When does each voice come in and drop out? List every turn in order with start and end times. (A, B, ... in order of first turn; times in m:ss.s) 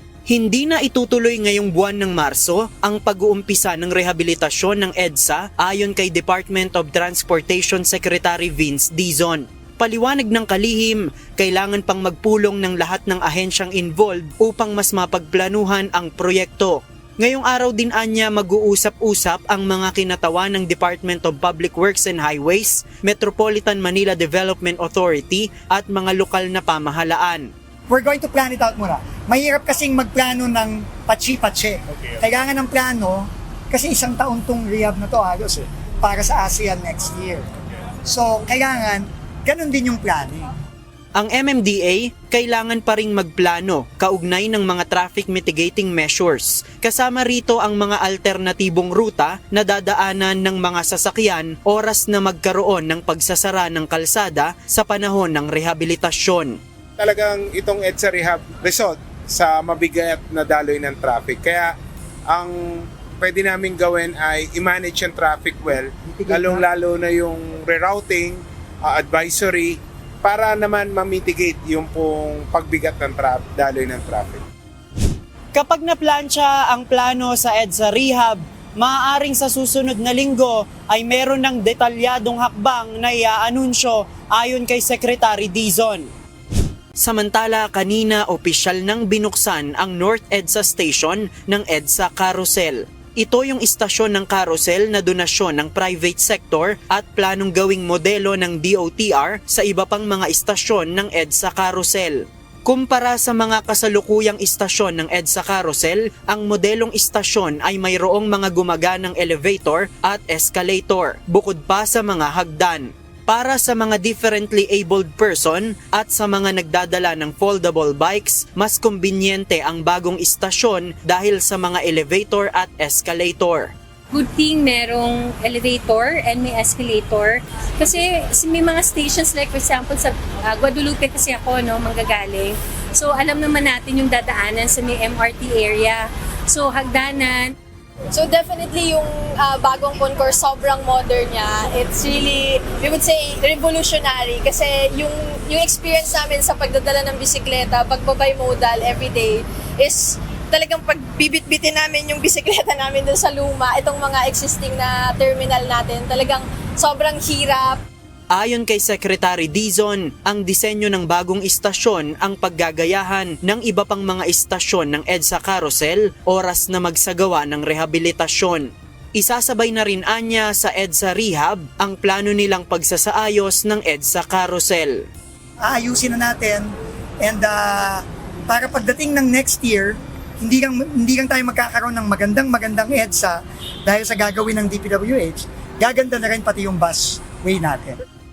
0:00.3-0:27.5 A
0:27.9-0:37.5 B
0:38.0-0:40.5 B
0:41.2-0:56.6 A
0:57.0-1:01.7 C
1:02.3-1:14.4 C
1:06.1-1:06.6 B
1:15.5-1:26.1 A
1:27.0-2:03.7 A
2:04.1-2:17.5 D
2:18.1-2:37.8 E
2:38.3-2:55.0 A
2:55.6-3:08.0 B